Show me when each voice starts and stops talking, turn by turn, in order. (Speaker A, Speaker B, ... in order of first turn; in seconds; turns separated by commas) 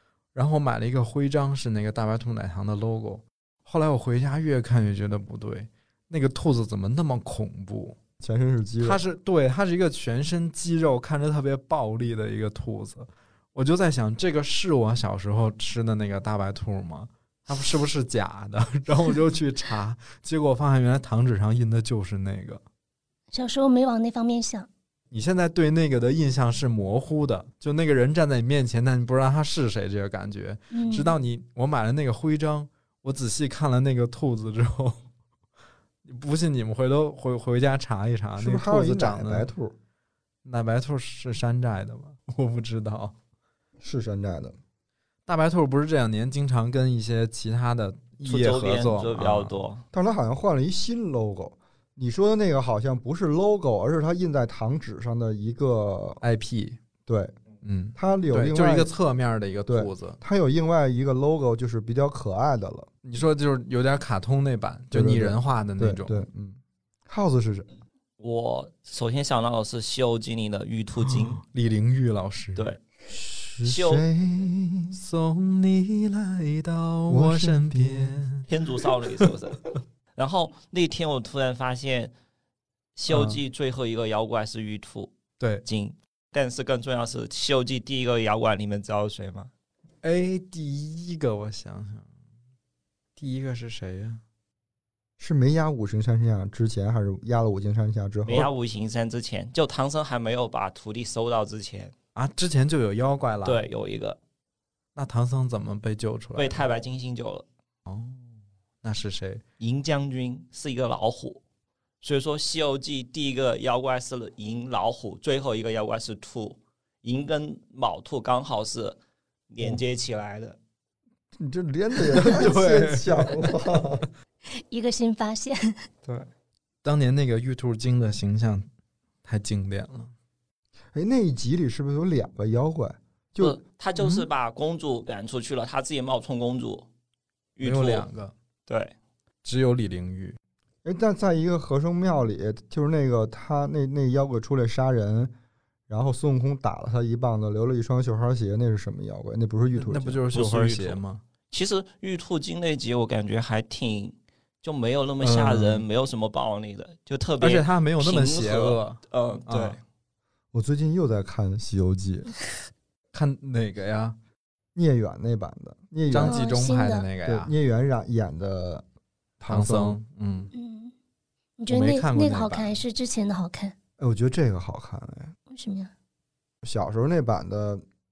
Speaker A: 0.3-8.0, Speaker B: 8.2-9.0, Speaker A: 8.8-22.6, Speaker C: 23.3-24.7, Speaker A: 25.1-35.0, Speaker C: 30.7-31.2, Speaker A: 36.0-39.5, Speaker B: 38.4-39.8, Speaker A: 40.5-43.1, Speaker B: 43.8-44.6, Speaker A: 45.3-49.6, Speaker D: 48.2-49.8, Speaker B: 49.9-56.2, Speaker A: 56.2-56.8, Speaker B: 57.1-57.4, Speaker A: 57.6-60.2, Speaker B: 58.0-58.9, Speaker B: 59.7-62.9, Speaker A: 63.0-66.3, Speaker B: 64.9-67.7, Speaker D: 68.2-71.4, Speaker A: 71.0-72.7, Speaker B: 73.1-75.0, Speaker D: 73.6-74.0, Speaker A: 74.9-78.5, Speaker B: 77.1-78.2, Speaker D: 78.5-82.1, Speaker D: 83.0-85.1, Speaker A: 83.1-83.4, Speaker A: 85.4-85.6, Speaker D: 85.7-89.5, Speaker A: 90.0-92.1, Speaker A: 93.2-94.2, Speaker B: 95.2-98.5, Speaker D: 98.2-101.9, Speaker A: 102.2-103.6, Speaker D: 103.5-104.2, Speaker A: 105.0-106.6, Speaker D: 106.4-107.5, Speaker A: 107.9-108.2, Speaker A: 108.8-109.4, Speaker D: 109.6-111.4, Speaker D: 112.0-119.0, Speaker D: 119.5-120.6, Speaker B: 121.4-124.1, Speaker A: 122.1-123.6, Speaker C: 124.5-125.9, Speaker A: 126.8-128.7, Speaker A: 129.2-130.1, Speaker B: 130.9-133.6, Speaker D: 133.4-136.9, Speaker A: 134.0-134.3, Speaker D: 137.6-138.1, Speaker A: 137.6-138.3, Speaker D: 138.7-138.9, Speaker A: 139.4-140.4, Speaker B: 140.8-145.3, Speaker B: 145.9-150.2, Speaker A: 149.8-151.2, Speaker D: 150.3-159.8, Speaker A: 155.2-155.8, Speaker A: 157.4-159.8, Speaker B: 160.5-162.3, Speaker A: 163.1-164.2, Speaker B: 164.8-166.4, Speaker A: 166.1-167.5, Speaker C: 166.2-167.1, Speaker B: 167.2-168.8, Speaker B: 169.4-170.0, Speaker A: 169.5-170.5, Speaker C: 170.5-170.9, Speaker C: 171.6-173.8, Speaker A: 171.7-172.8, Speaker B: 174.0-175.3, Speaker C: 175.5-175.9, Speaker B: 176.6-177.8